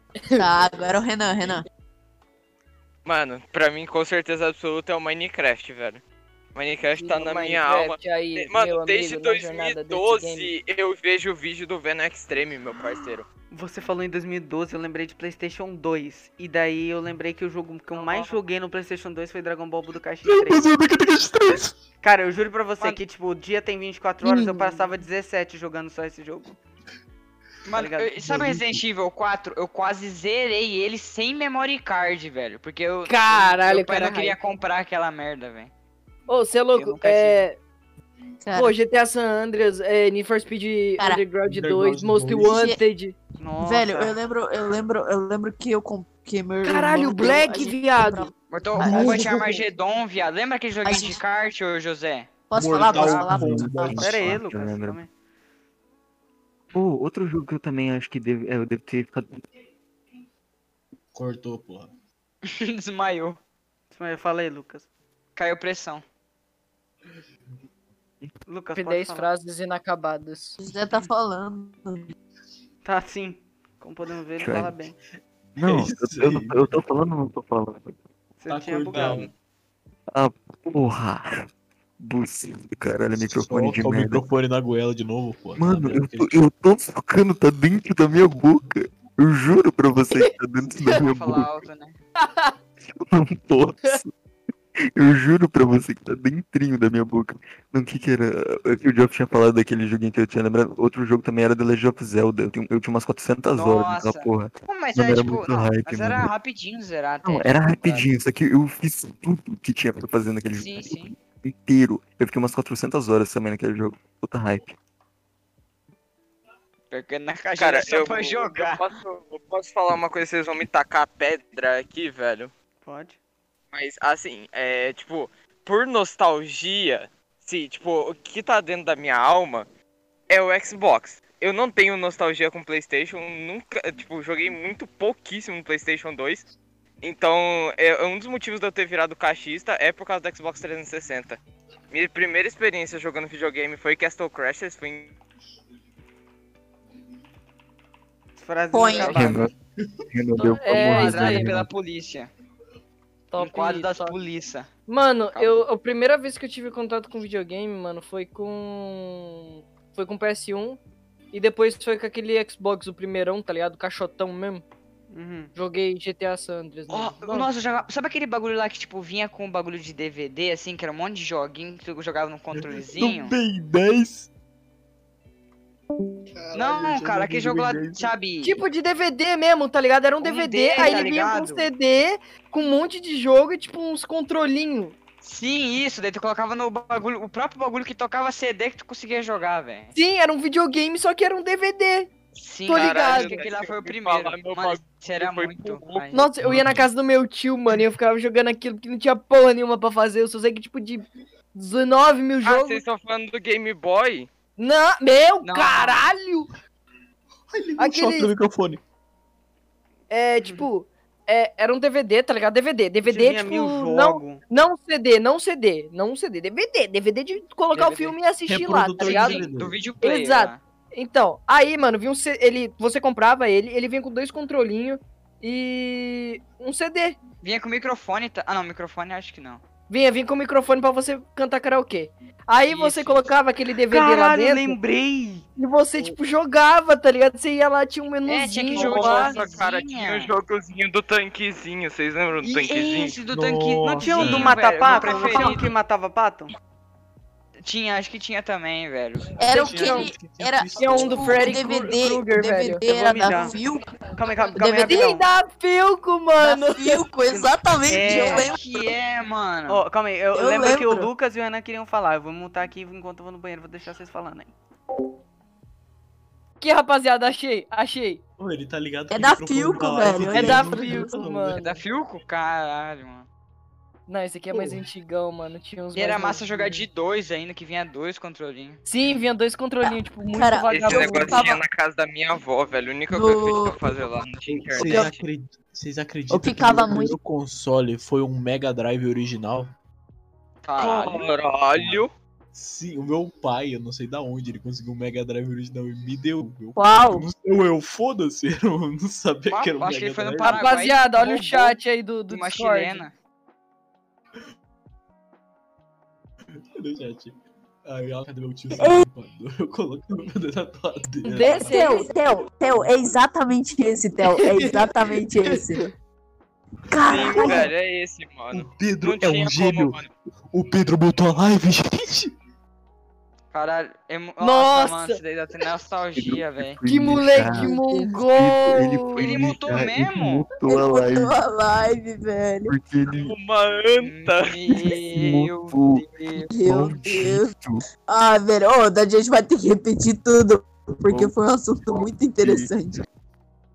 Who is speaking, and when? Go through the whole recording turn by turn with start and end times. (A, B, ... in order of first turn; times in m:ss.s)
0:00.4-0:01.6 A
0:03.0-0:06.0 B
0:06.6-0:13.3 B
0:07.0-0:10.5 C
0:13.5-0:20.6 D
0:17.9-0:18.4 E
0:20.2-0:21.7 F
0:22.0-0:26.6 D
0:24.2-0:24.9 C
0:27.6-0:35.7 E
0:27.7-0:28.2 D
0:28.2-0:28.8 F
0:33.1-0:34.4 C
0:36.3-0:37.6 C
0:36.7-0:37.4 E
0:38.4-0:38.8 A
0:38.5-0:43.2 C
0:41.0-0:41.2 A
0:41.4-0:42.6 F
0:42.4-0:42.8 A
0:43.4-0:44.2 D
0:43.6-0:49.5 A
0:46.6-0:48.3 C
0:48.5-0:52.3 E
0:48.8-0:49.6 F
0:50.8-0:51.2 A
0:52.5-0:54.0 A
0:52.5-0:54.3 F
0:53.0-0:55.0 G
0:53.9-0:55.1 D
0:56.7-0:59.4 G
1:01.1-1:01.9 F
1:02.4-1:03.4 E
1:03.9-1:04.9 D
1:05.4-1:06.0 E
1:08.5-1:09.3 D
1:08.8-1:10.6 C
1:10.6-1:12.1 A
1:12.8-1:15.0 D
1:14.4-1:14.8 G
1:15.6-1:18.0 G
1:15.6-1:16.7 F
1:18.4-1:19.3 D
1:18.5-1:19.3 F
1:20.1-1:21.3 G
1:22.0-1:24.2 G
1:23.2-1:26.3 F
1:25.6-1:31.5 G
1:30.9-1:32.0 E
1:32.2-1:32.6 C
1:32.9-1:34.1 G
1:35.0-1:46.3 G
1:43.5-1:48.1 E
1:47.2-1:54.8 G
1:50.5-1:51.1 E
1:56.9-1:58.9 E
1:57.6-2:02.5 B
2:02.8-2:03.2 D
2:03.7-2:09.7 B
2:10.3-2:16.5 B
2:17.0-2:21.4 B
2:21.9-2:25.2 B
2:28.4-2:29.5 D
2:28.7-2:29.3 A
2:29.0-2:29.4 E
2:29.1-2:29.5 G
2:30.1-2:31.7 G
2:30.4-2:31.6 C
2:30.7-2:32.3 E
2:33.3-2:34.2 C
2:33.4-2:34.7 E
2:34.9-2:40.8 C
2:35.3-2:35.7 E
2:41.3-2:44.6 C
2:45.1-2:45.5 D
2:45.6-2:47.5 C
2:46.9-2:53.4 E
2:52.6-2:54.3 F
2:56.4-2:58.1 F
2:56.5-2:58.6 E
2:58.4-3:05.0 C
3:00.2-3:01.7 E
3:05.2-3:09.9 E
3:10.0-3:12.1 C
3:12.4-3:16.3 E
3:12.7-3:13.4 C
3:12.7-3:16.1 B
3:16.1-3:22.8 C
3:16.4-3:16.9 F
3:22.4-3:24.3 B
3:24.6-3:26.5 C
3:25.4-3:26.0 E
3:27.5-3:28.8 F
3:27.8-3:28.3 C
3:30.1-3:39.5 C
3:33.0-3:34.4 D
3:37.7-3:38.2 E
3:38.5-3:39.9 F
3:39.0-3:40.6 E
3:40.0-3:47.2 C
3:47.4-3:49.6 E
3:49.9-3:54.8 C
3:52.7-3:53.3 E
3:53.9-3:55.5 D
3:55.6-3:59.4 C
3:58.3-4:00.3 E
3:58.7-4:03.2 B
4:02.4-4:05.8 E
4:03.3-4:04.6 F
4:03.9-4:06.5 D
4:05.2-4:05.5 C
4:07.6-4:09.4 E
4:09.4-4:13.8 A
4:09.5-4:11.6 F
4:09.7-4:10.1 C
4:10.8-4:13.5 C
4:12.9-4:13.5 D
4:14.2-4:15.2 D
4:14.4-4:15.2 A
4:14.8-4:17.1 C
4:16.4-4:18.8 A
4:17.3-4:18.5 D
4:18.1-4:19.8 E
4:19.7-4:24.5 D
4:20.3-4:21.1 A
4:26.6-4:28.2 C
4:28.4-4:31.6 F
4:29.1-4:31.2 A
4:30.3-4:31.8 C
4:31.6-4:33.3 E
4:34.1-4:36.9 C
4:34.5-4:34.8 F
4:35.9-4:38.8 E
4:38.9-4:41.6 C
4:39.8-4:41.6 A
4:40.7-4:45.2 B
4:43.1-4:43.8 A
4:44.8-4:49.7 F
4:44.8-4:45.1 A
4:46.3-4:47.2 A
4:50.6-4:51.3 E
4:50.8-4:52.1 B
4:52.5-5:00.7 F
4:56.8-4:57.3 A
4:59.5-5:01.8 E
5:00.4-5:03.0 C
5:02.3-5:03.1 E
5:06.8-5:07.4 F
5:07.9-5:11.8 F
5:08.8-5:09.1 A
5:11.2-5:12.1 C
5:11.4-5:15.9 A
5:14.4-5:14.8 C
5:15.4-5:15.8 C
5:16.9-5:17.7 A
5:17.1-5:20.1 B
5:18.5-5:20.0 F
5:20.5-5:22.3 F
5:23.5-5:26.8 E
5:24.4-5:25.2 C
5:26.2-5:31.4 G
5:26.9-5:29.4 C
5:27.5-5:28.2 A
5:29.2-5:30.4 E
5:30.6-5:32.7 A
5:32.7-5:33.4 G
5:33.2-5:34.6 B
5:34.0-5:36.5 E
5:34.7-5:37.8 G
5:36.5-5:43.0 A
5:41.1-5:41.3 G
5:41.9-5:42.7 G